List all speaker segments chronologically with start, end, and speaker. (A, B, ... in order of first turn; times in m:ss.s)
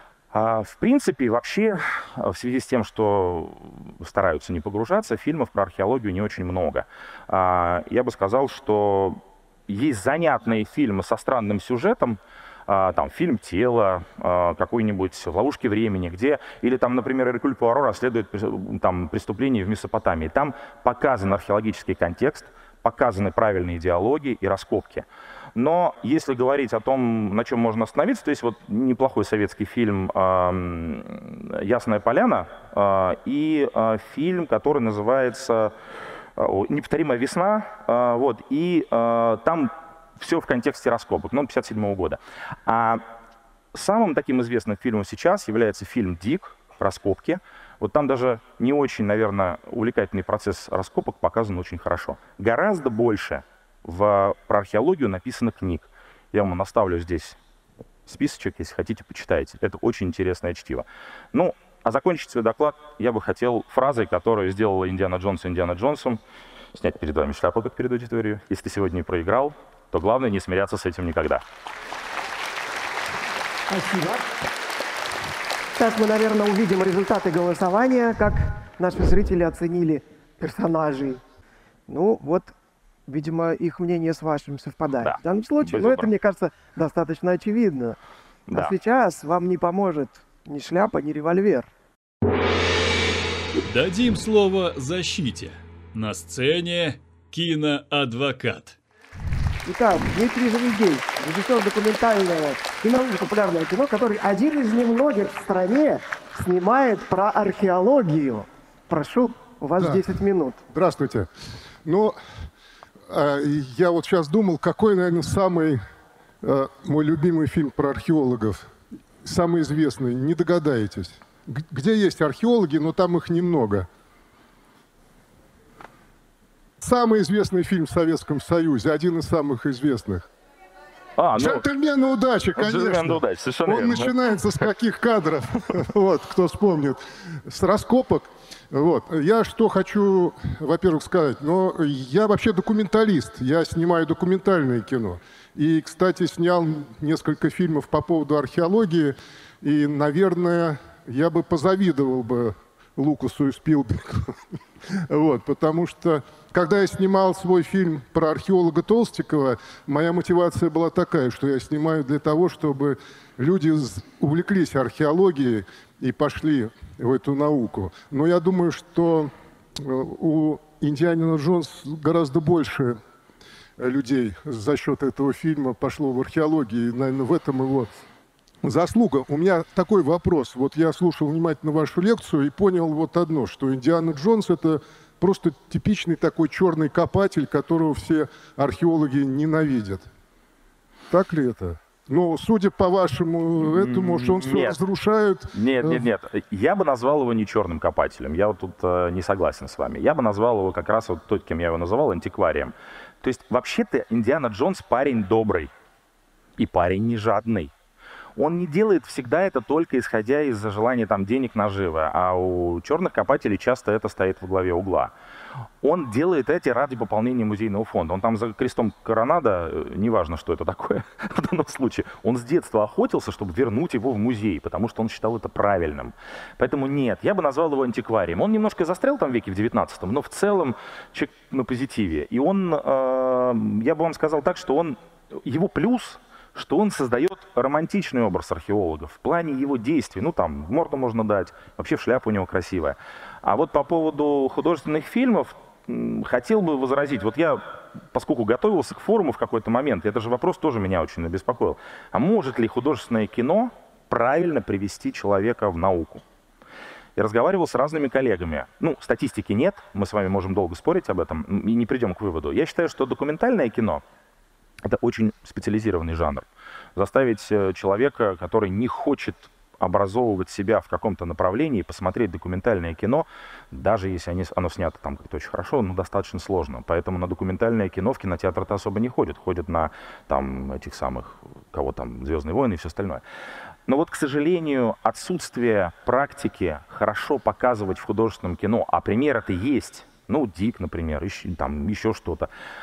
0:00.3-0:35.7 A
0:36.4-0:43.0 A
0:43.7-0:57.4 A
0:58.1-1:06.2 A
1:06.7-1:11.4 A
1:13.7-1:14.3 B
1:15.7-1:21.2 B
1:21.9-1:22.5 B
1:23.1-1:28.0 B
1:25.0-1:26.1 A
1:28.5-1:28.7 A
1:28.5-1:31.7 B
1:33.6-1:38.8 C
1:39.6-1:50.6 B
1:50.7-1:51.3 D
1:51.8-1:52.2 D
1:53.1-1:55.8 D
1:56.4-1:58.7 D
1:59.2-2:03.9 D
2:06.8-2:10.2 D
2:11.2-2:11.6 A
2:11.4-2:34.4 D
2:12.6-2:14.7 A
2:35.1-2:53.0 D
2:53.8-2:58.0 D
2:58.6-3:10.1 D
3:11.1-3:16.0 D
3:13.6-3:14.8 A
3:15.5-3:25.7 A
3:26.6-3:27.7 A
3:28.4-3:35.1 A
3:35.8-4:16.2 A
4:17.2-4:24.0 A
4:24.8-4:43.2 A
4:43.9-4:52.5 A